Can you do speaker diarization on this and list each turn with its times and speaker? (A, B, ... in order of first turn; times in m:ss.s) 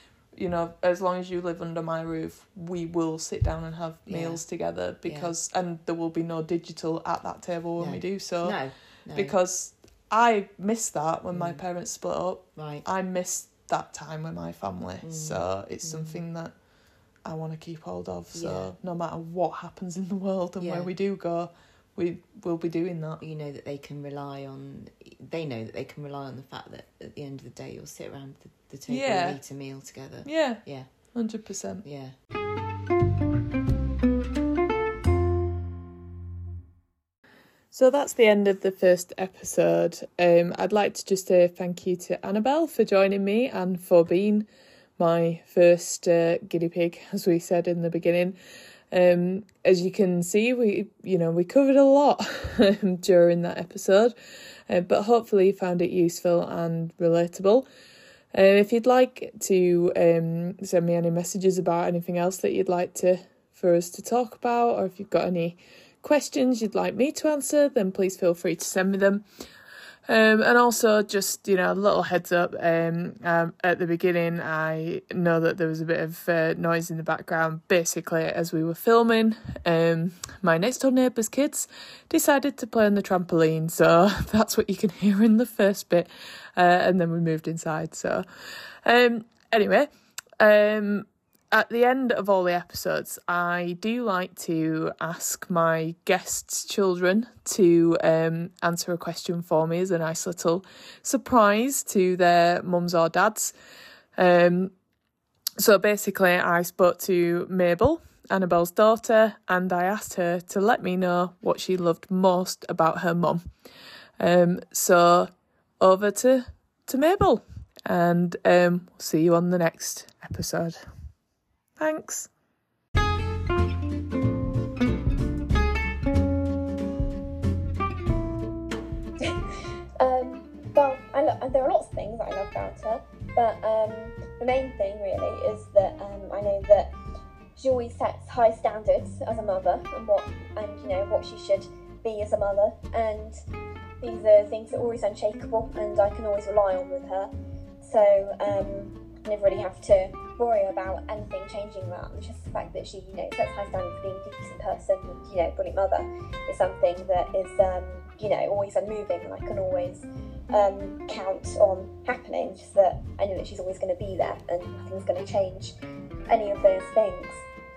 0:00.3-0:08.6 A
0:04.1-0:04.4 B
0:05.0-0:05.3 B
0:07.8-0:09.4 B
0:09.1-0:16.5 A
0:11.3-0:11.6 B
0:12.6-0:12.8 B
0:15.0-0:16.2 B
0:17.2-0:23.2 A
0:18.3-0:18.7 B
0:20.6-0:20.9 B
0:23.2-0:30.9 B
0:28.9-0:29.4 A
0:30.2-0:30.6 A
0:31.1-0:31.8 A
0:31.8-0:32.2 B
0:37.7-0:48.4 A
0:48.9-0:54.1 A
0:54.7-0:57.7 A
0:58.3-1:09.2 A
1:10.1-1:28.2 A
1:28.8-1:43.5 A
1:44.2-1:44.7 A
1:45.6-1:53.4 A
1:54.2-2:00.8 A
2:01.8-2:02.3 A
2:10.0-2:16.9 C
2:17.6-2:23.4 C
2:24.0-2:27.3 C
2:27.8-2:45.7 C
2:46.3-2:47.4 C